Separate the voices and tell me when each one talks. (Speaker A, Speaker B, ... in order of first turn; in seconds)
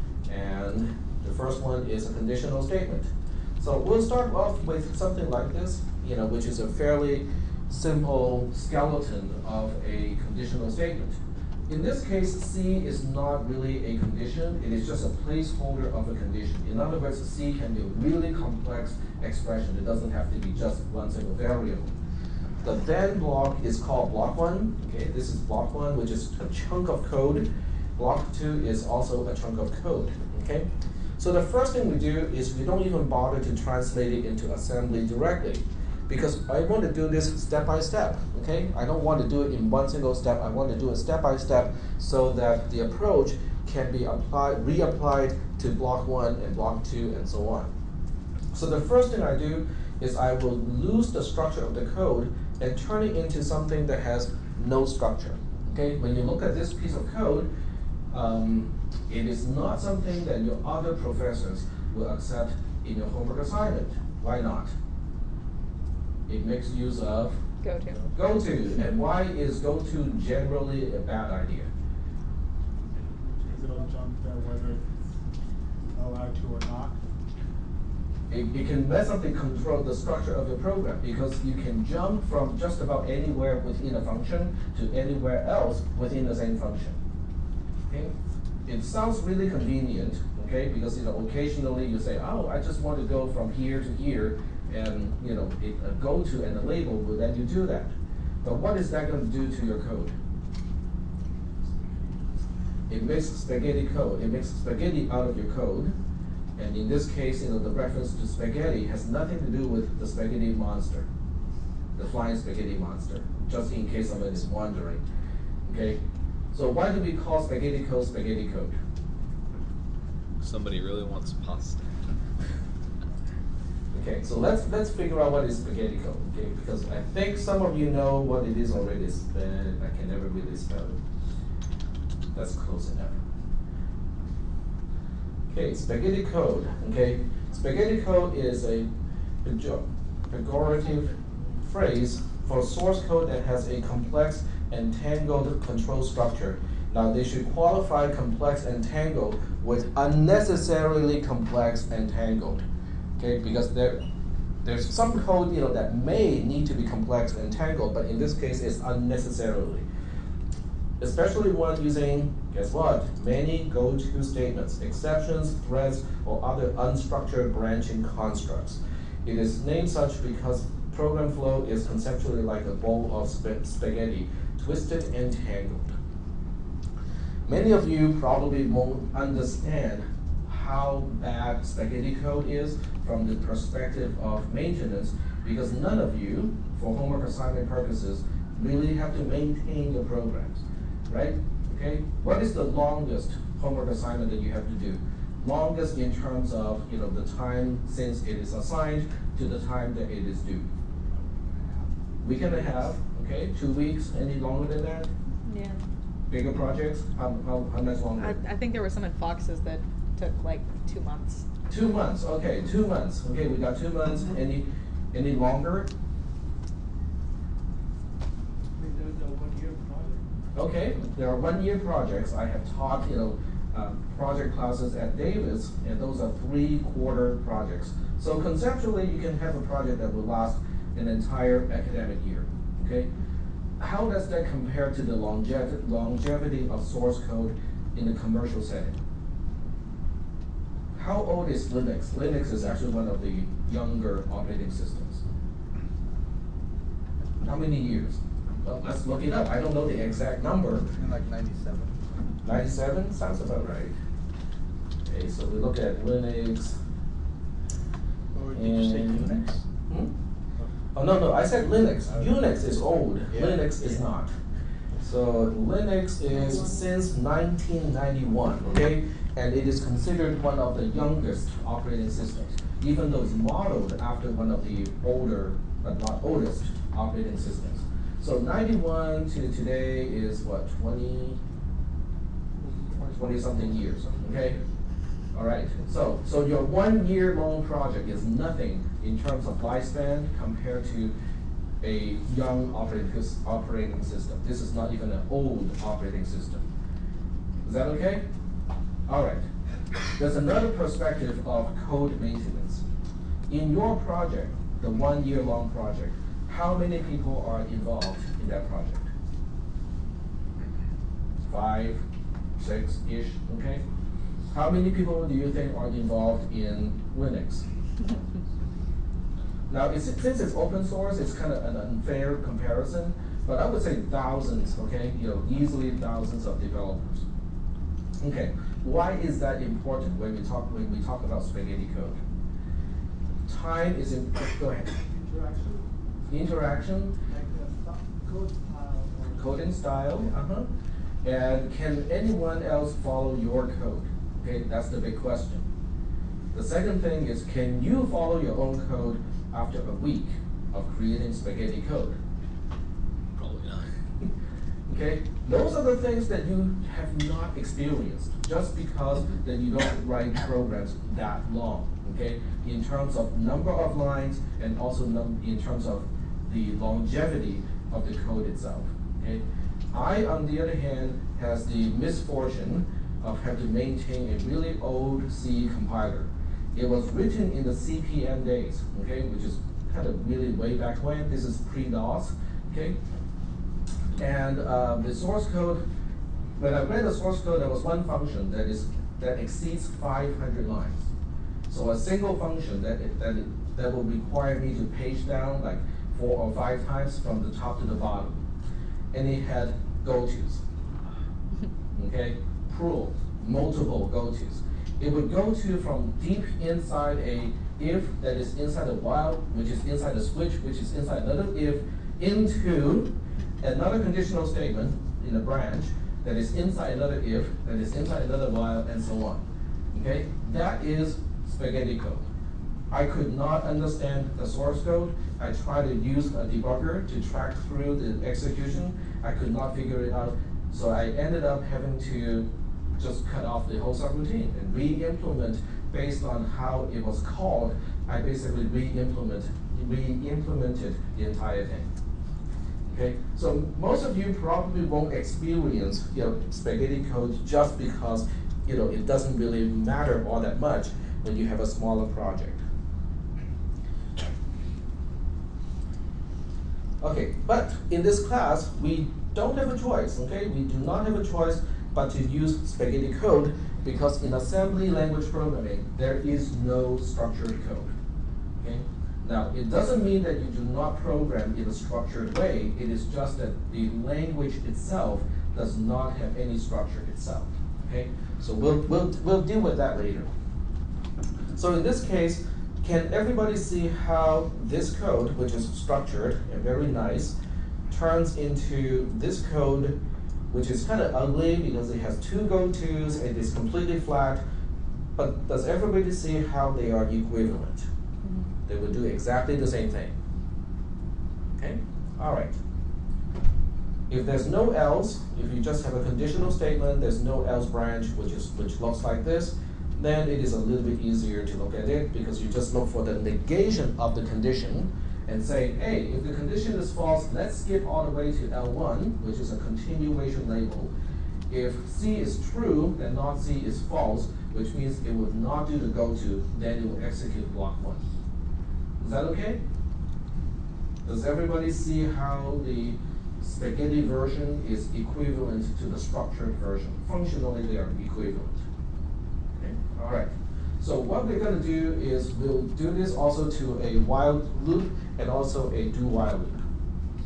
Speaker A: 0.2-21.9, 22.6-30.7, 31.2-47.7, 48.5-57.5, 58.1-64.7, 66.3-67.4, 68.1-71.7, 78.3-87.0, 88.7-97.9, 98.4-100.1, 102.9-105.9, 106.5-111.1, 112.0-115.0, 115.6-116.0, 116.5-118.8, 123.9-131.0, 132.3-133.2, 135.5-138.9, 139.4-152.6, 153.2-154.0, 154.6-159.9, 161.0-175.9, 177.5-200.7, 202.2-205.1, 206.3-208.4, 211.7-215.9, 220.6-233.1, 233.8-239.0, 240.9-245.2, 247.4-250.9, 252.4-253.9, 255.0-256.8, 258.5-260.1, 260.9-264.4, 265.0-281.4, 283.1-284.6, 285.3-291.1, 291.8-296.7, 297.6-298.2, 299.1-299.4, 300.1-302.8, 303.5-309.1, 311.4-312.0, 312.6-313.8, 314.5-317.6, 319.7-327.2, 328.2-332.2, 333.5-334.9, 336.3-337.1, 339.4-340.7, 341.2-345.6, 346.5-352.2, 353.8-354.3, 354.9-383.0, 384.1-385.8, 386.6-391.1, 391.7-398.4, 399.1-400.6, 401.9-422.2, 422.9-441.9, 442.9-452.6, 457.0-467.9, 468.6-480.3, 481.6-487.4, 487.9-490.0, 490.5-494.4, 495.1-497.9, 498.7-500.1, 501.6-502.6, 504.1-520.9, 521.5-528.0, 529.0-529.6, 531.0-538.6, 539.6-546.6
Speaker B: 67.6-68.0, 205.4-205.9, 208.2-211.5, 266.4-266.8, 498.2-498.5
Speaker C: 73.2-73.7, 218.8-220.2, 282.6-284.5, 334.9-335.9, 337.3-340.2
Speaker D: 73.4-74.9, 75.9-77.0
Speaker E: 120.4-121.9, 353.4-353.8
Speaker F: 250.9-252.1, 258.3-259.7, 262.0-262.5, 263.3-264.1